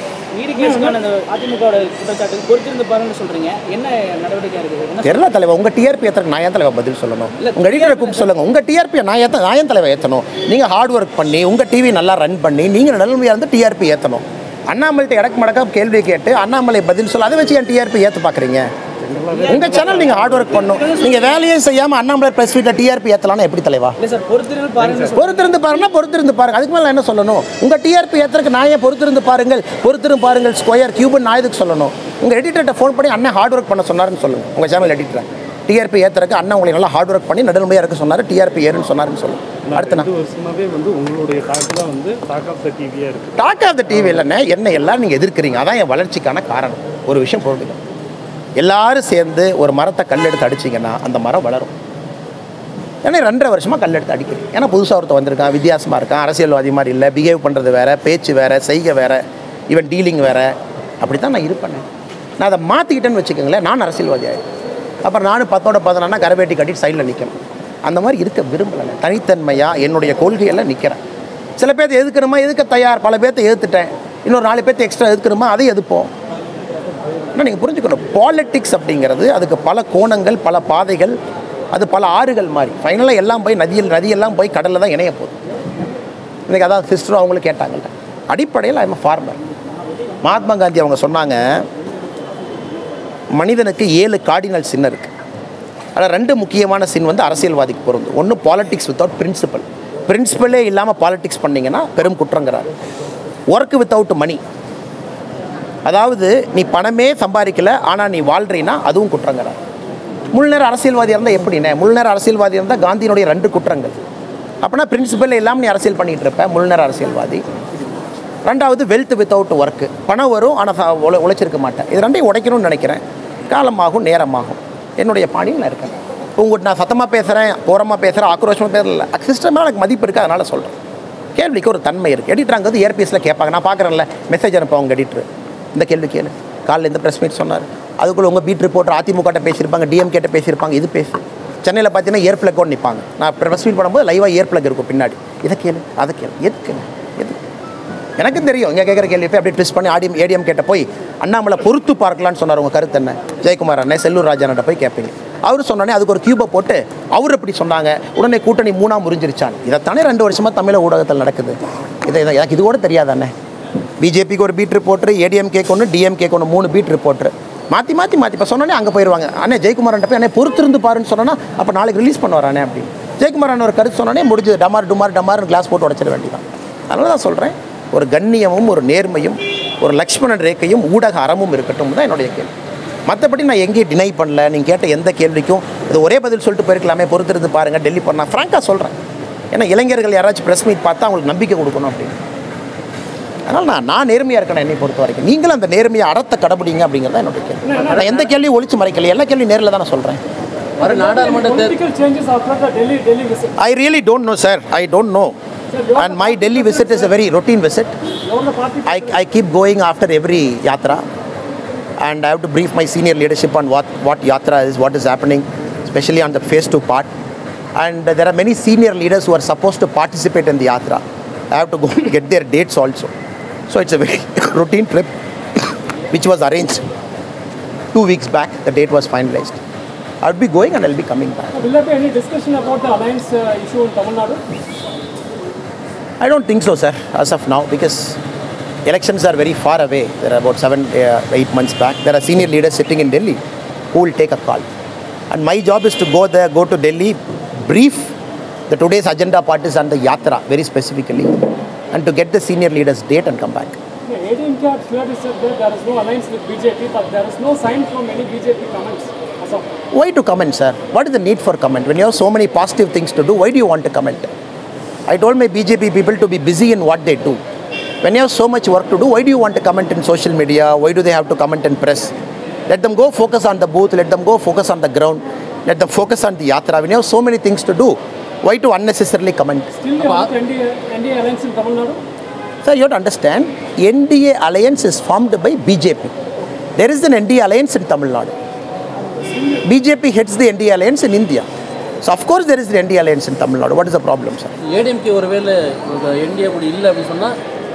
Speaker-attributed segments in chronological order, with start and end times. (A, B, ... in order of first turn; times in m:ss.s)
0:00.3-0:05.2 A
0:00.6-0:01.0 B
0:05.0-0:18.7 C
0:07.4-0:08.3 A
0:19.0-0:20.8 B
0:19.3-0:21.4 A
0:19.5-0:24.0 C
0:24.0-0:25.6 A
0:24.8-0:25.1 B
0:25.1-0:40.1 C
0:39.7-0:43.4 B
0:43.4-0:47.8 C
0:48.6-0:51.7 C
0:53.0-1:01.8 C
1:02.4-1:04.4 C
1:05.0-1:07.4 C
1:07.9-1:11.0 C
1:11.6-1:16.1 C
1:17.4-1:21.2 C
1:21.7-1:25.4 C
1:26.5-1:29.4 C
1:30.2-1:31.7 C
1:33.3-1:35.1 C
1:36.0-1:42.7 C
1:43.5-1:44.4 C
1:45.9-1:49.6 C
1:50.3-1:54.0 C
1:54.6-1:57.4 C
1:58.4-2:10.8 C
2:11.4-2:27.4 C
2:28.2-2:43.3 C
2:44.0-3:02.5 C
3:03.1-3:09.0 C
3:09.5-3:12.2 C
3:13.5-3:20.2 C
3:17.6-3:18.3 B
3:20.8-3:23.6 B
3:20.8-3:21.8 D
3:23.6-3:25.4 C
3:25.7-3:27.2 B
3:26.0-3:28.0 C
3:28.3-3:29.2 B
3:28.8-3:31.0 C
3:32.0-3:37.1 C
3:37.8-3:43.1 C
3:43.7-3:45.1 C
3:46.1-3:46.9 C
3:47.9-3:49.6 C
3:50.2-3:51.7 C
3:51.6-3:54.4 B
3:56.2-3:58.2 C
3:58.9-4:03.4 C
4:03.9-4:04.7 C
4:05.3-4:08.1 C
4:08.7-4:11.3 C
4:11.9-4:13.8 C
4:14.1-4:19.6 B
4:20.0-4:24.3 C
4:25.1-4:27.4 C
4:28.0-4:32.1 C
4:32.7-4:39.7 C
4:39.8-4:42.0 B
4:40.0-4:40.3 D
4:42.6-4:46.1 C
4:46.8-4:48.4 C
4:49.6-4:51.5 C
4:52.0-4:54.6 C
4:54.7-4:57.4 D